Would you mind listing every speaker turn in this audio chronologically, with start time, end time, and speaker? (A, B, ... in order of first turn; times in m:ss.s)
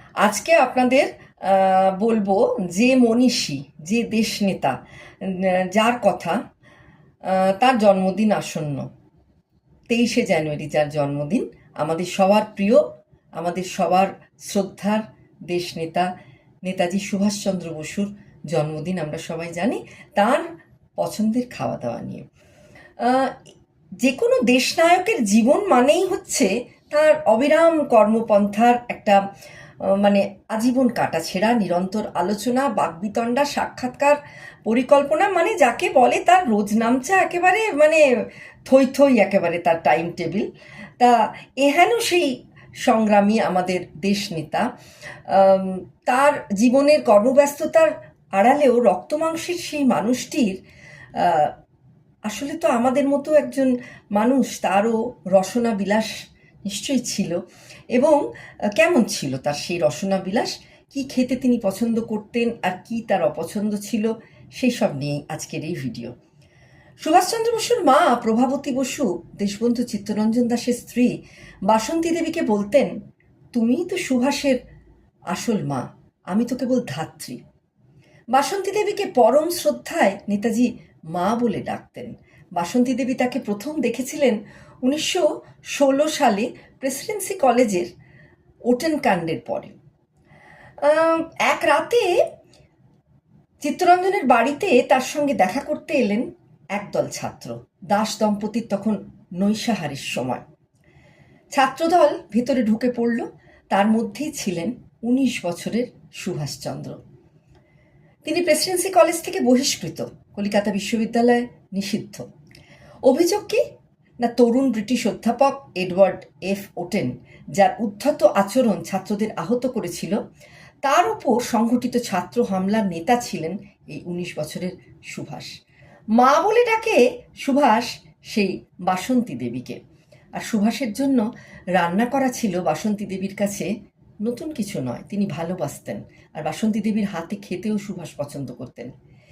0:00.2-0:06.4 A
0:07.3-0:08.9 A
0:09.9-0:12.8 A
0:13.4-0:16.1 A
0:16.6-0:20.4 A
0:21.0-0:22.2 A
0:23.0-0:23.4 A
0:24.0-0:29.2 A
0:29.8-0:38.0 A
0:38.7-0:40.5 A
0:41.0-0:44.7 A
0:45.3-0:50.6 A
0:51.2-0:51.5 A
0:52.3-0:56.1 A
0:56.6-0:57.4 A
0:57.9-0:58.2 A
0:58.8-1:06.1 A
1:07.0-1:11.2 A
1:11.7-1:12.9 A
1:13.5-1:14.6 A
1:15.3-1:17.4 A
1:18.3-1:27.9 A
1:28.7-1:29.8 A
1:30.8-1:32.2 A
1:33.6-1:40.4 A
1:41.5-1:47.0 A
1:48.2-1:52.2 A
1:53.1-1:53.6 A
1:54.2-2:00.2 A
2:00.8-2:05.5 A
2:06.2-2:09.8 A
2:10.4-2:11.2 A
2:11.8-2:13.7 A
2:14.2-2:18.9 A